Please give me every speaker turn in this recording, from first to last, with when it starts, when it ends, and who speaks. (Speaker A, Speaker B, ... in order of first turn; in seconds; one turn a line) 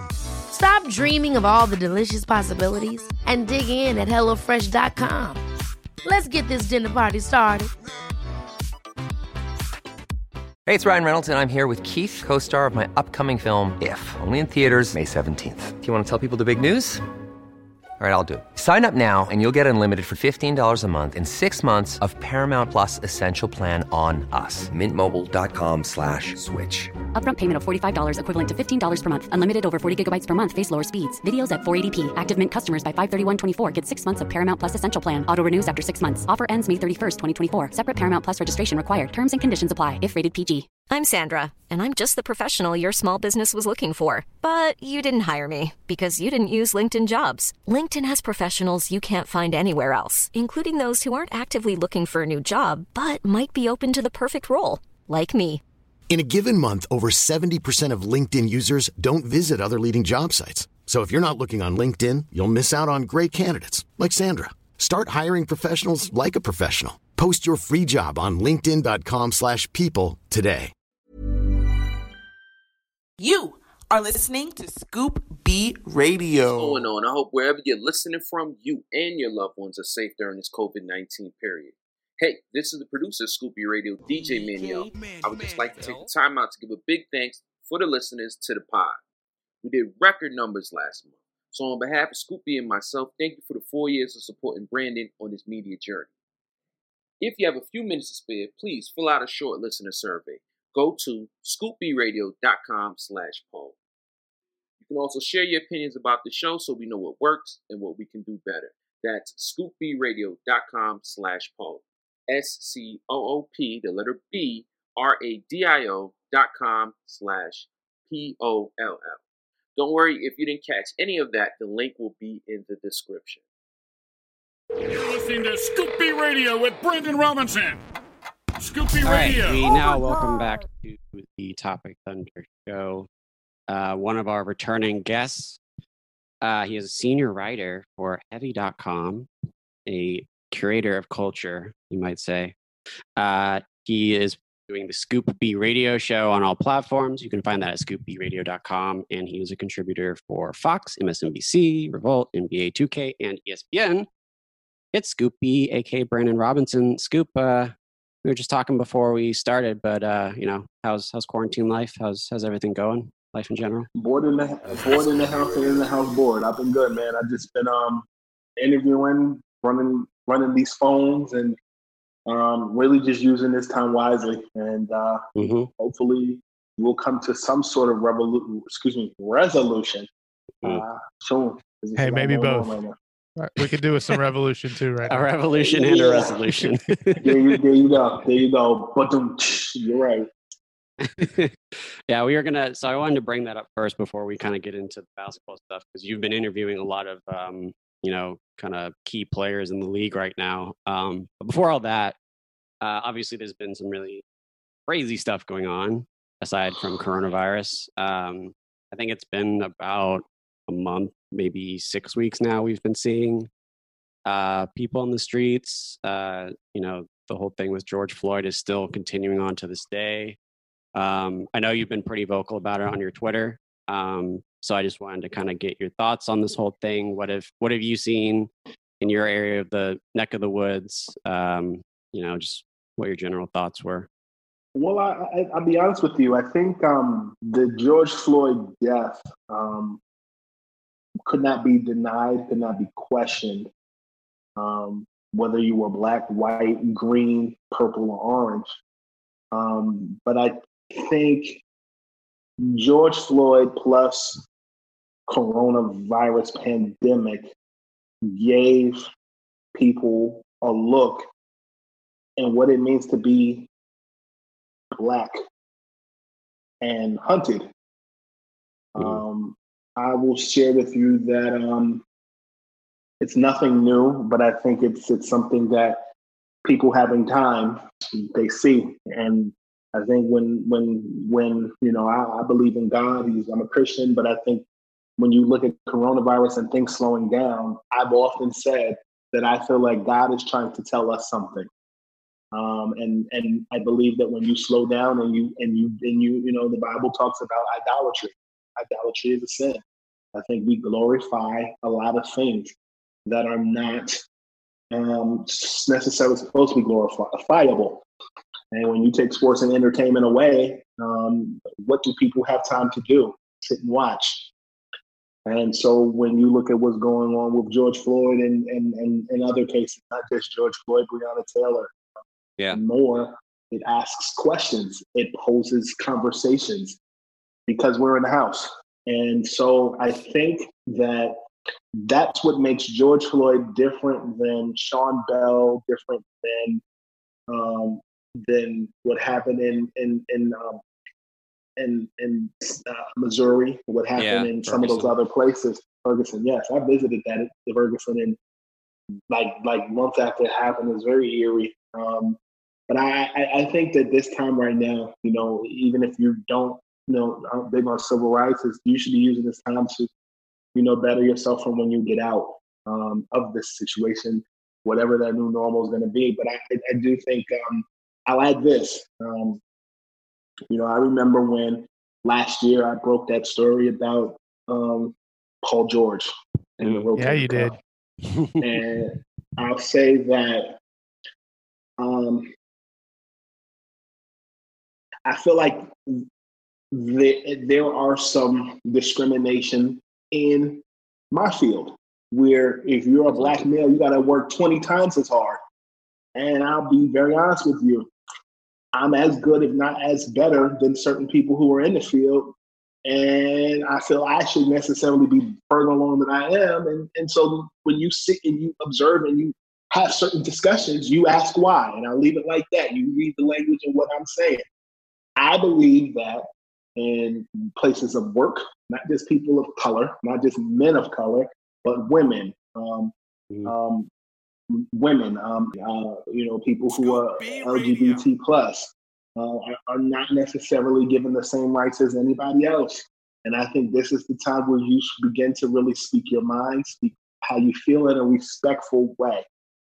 Speaker A: 0.5-5.4
Speaker A: 6.0-7.7
Speaker B: 10.7-17.0
Speaker B: 18.0-26.9
Speaker C: 27.1-40.7
Speaker D: 40.9-55.6
Speaker E: 56.1-70.7
Speaker F: 73.2-76.8
Speaker G: 76.5-89.0
Speaker F: 84.0-86.1
Speaker G: 89.6-96.1
Speaker G: 97.2-103.8
Speaker G: 104.8-119.2
Speaker G: 119.8-123.4
Speaker H: 124.9-127.8
Speaker H: 128.6-129.7
Speaker I: 129.0-133.1
Speaker I: 133.7-135.6
Speaker I: 136.4-139.3
Speaker I: 139.8-142.5
Speaker I: 143.2-154.1
Speaker I: 154.9-157.7
Speaker I: 158.2-163.9
Speaker J: 163.9-168.0
Speaker J: 168.6-171.6
Speaker J: 172.3-175.2
Speaker I: 175.3-175.7
Speaker J: 175.8-180.1
Speaker J: 180.6-182.9
Speaker K: 181.9-182.8
Speaker K: 183.4-185.3
Speaker I: 185.1-187.3
Speaker J: 185.6-186.3
Speaker K: 186.6-186.9
Speaker J: 187.2-190.3
Speaker I: 191.0-191.5
Speaker I: 192.1-202.2
Speaker I: 202.8-204.2
Speaker I: 204.9-213.5
Speaker I: 214.2-220.4
Speaker I: 220.9-228.5
Speaker I: 229.0-234.1
Speaker J: 234.7-240.0
Speaker J: 241.3-243.7
Speaker J: 244.6-248.7
Speaker J: 249.5-251.6
Speaker J: 252.6-254.4
Speaker J: 255.3-257.5
Speaker J: 258.2-259.0
Speaker J: 259.7-261.3
Speaker J: 262.4-263.7
Speaker J: 264.9-265.4
Speaker J: 266.8-267.7
Speaker J: 268.9-272.0
Speaker J: 273.2-276.0
Speaker J: 276.6-284.6
Speaker J: 285.2-291.7
Speaker J: 292.5-299.8
Speaker J: 300.3-302.7
Speaker J: 303.2-304.2
Speaker J: 304.9-308.0
Speaker J: 308.7-314.5
Speaker J: 315.4-321.9
Speaker J: 322.7-327.0
Speaker J: 327.7-331.4
Speaker J: 332.0-336.8
Speaker J: 337.5-340.8
Speaker J: 341.8-348.4
Speaker I: 344.1-345.1
Speaker J: 349.3-360.1
Speaker J: 360.7-369.6
Speaker J: 370.7-377.7
Speaker I: 376.8-377.1
Speaker K: 377.1-377.8
Speaker J: 378.6-380.8
Speaker J: 382.0-382.5
Speaker J: 385.2-386.2
Speaker J: 386.9-395.6
Speaker I: 393.3-393.6
Speaker J: 396.3-398.1
Speaker J: 398.9-402.5
Speaker J: 403.0-414.6
Speaker J: 415.4-416.4
Speaker J: 417.0-423.1
Speaker J: 423.6-424.1
Speaker J: 424.7-439.4
Speaker H: 426.9-428.2